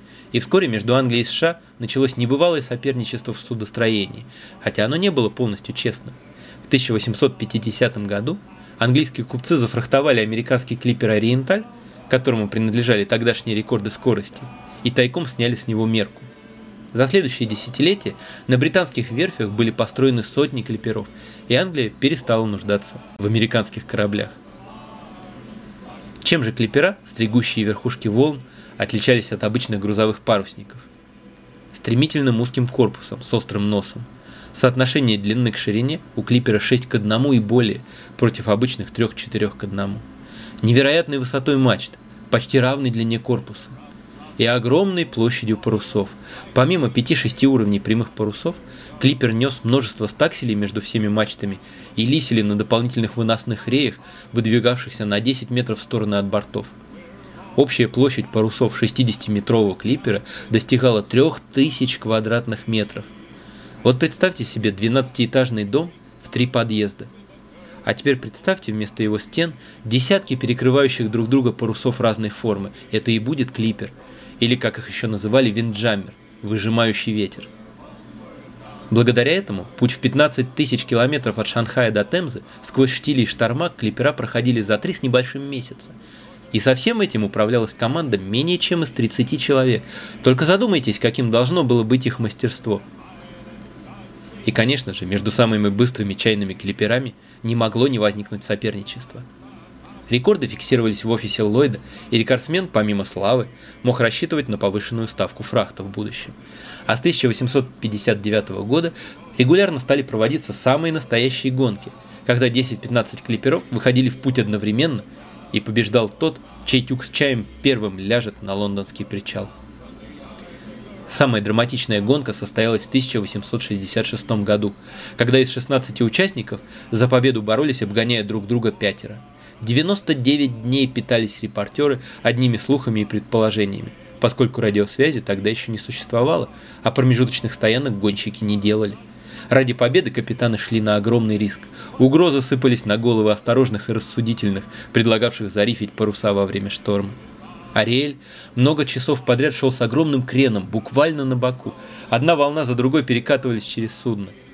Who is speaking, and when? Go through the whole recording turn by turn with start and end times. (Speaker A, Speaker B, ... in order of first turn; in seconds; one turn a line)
Speaker A: 0.3-16.3
Speaker A: 16.9-24.4
Speaker A: 26.2-30.9
Speaker A: 31.7-40.0
Speaker A: 40.6-43.8
Speaker A: 44.4-56.7
Speaker A: 57.6-63.1
Speaker A: 63.8-67.1
Speaker A: 67.8-77.5
Speaker A: 78.9-86.0
Speaker A: 86.5-92.8
Speaker A: 94.5-99.3
Speaker A: 100.1-119.5
Speaker A: 121.1-147.2
Speaker A: 147.7-154.4